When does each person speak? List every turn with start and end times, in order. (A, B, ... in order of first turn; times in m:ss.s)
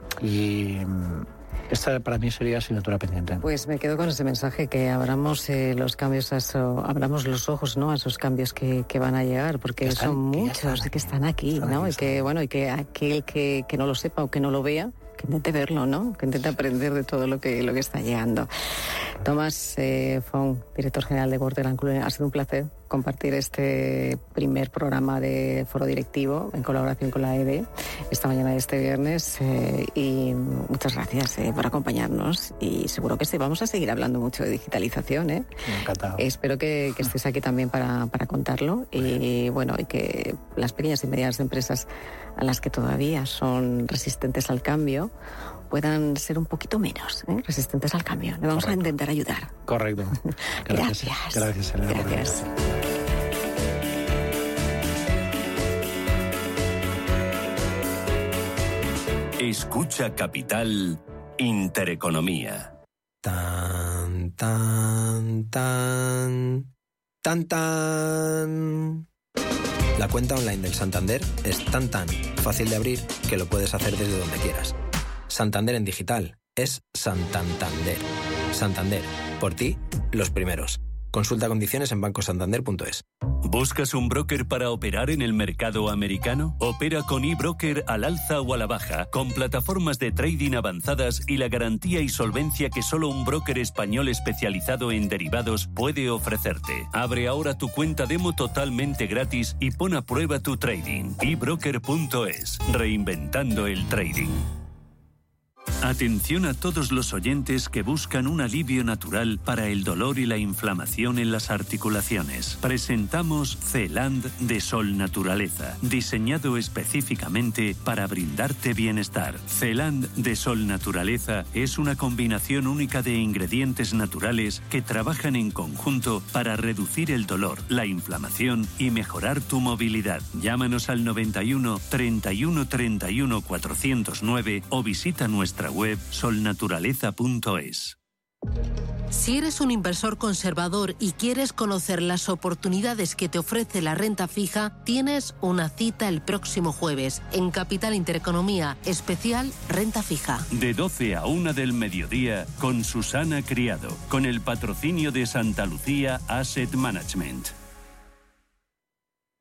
0:00.2-0:03.4 A
0:03.4-0:18.5 B
0:09.8-0:12.3 A
0:19.2-0:35.5 B
0:35.7-0:36.2 A
0:36.2-0:45.1 B
0:45.7-0:49.5 B
0:48.5-0:49.0 A
0:49.7-0:52.5 A
0:50.7-0:52.4 B
0:59.4-1:02.7 C
1:03.2-1:06.7 D
1:07.2-1:09.0 D
1:10.0-1:14.8 D
1:15.3-1:23.0 D
1:23.4-1:44.5 C
1:45.8-2:18.0 C
2:19.1-2:30.5 E
2:30.5-2:37.5 C